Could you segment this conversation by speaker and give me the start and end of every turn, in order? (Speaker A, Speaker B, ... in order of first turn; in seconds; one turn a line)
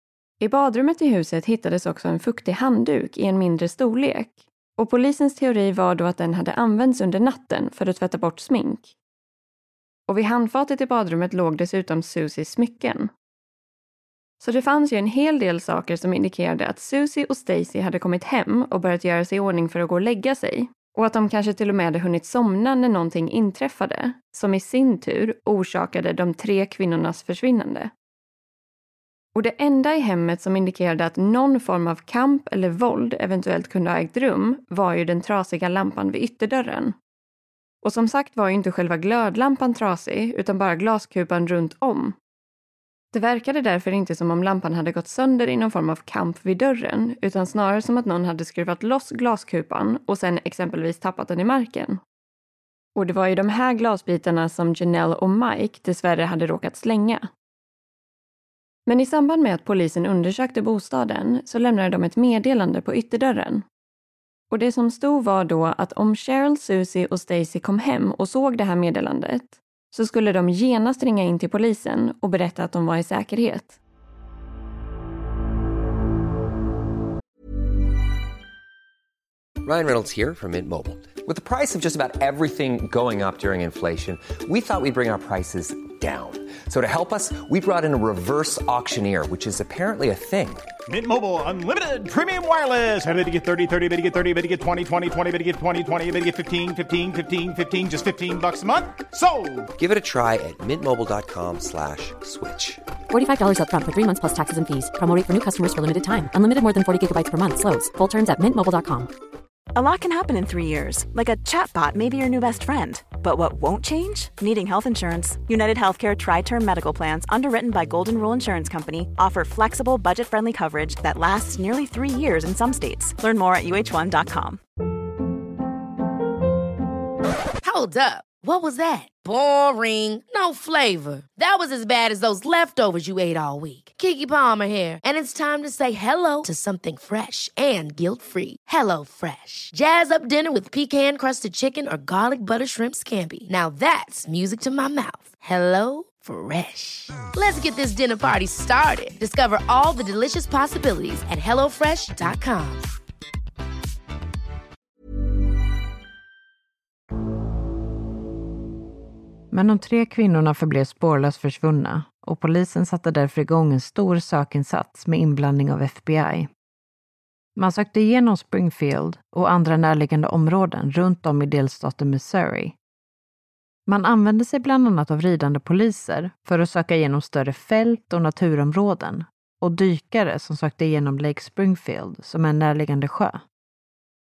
Speaker A: 0.4-8.9
Speaker A: 10.1-13.1
Speaker A: 14.4-27.9
Speaker A: 29.3-36.9
Speaker A: 37.8-42.1
Speaker A: 43.1-52.0
Speaker A: 53.0-57.3
Speaker A: 58.9-63.6
Speaker A: 64.5-73.8
Speaker B: 79.6-90.7
Speaker C: 90.9-99.7
Speaker B: 99.8-102.8
Speaker D: 103.1-109.1
Speaker E: 109.7-124.6
Speaker F: 127.6-152.8
Speaker G: 159.5-166.5
Speaker G: 167.6-172.8
Speaker G: 173.9-183.4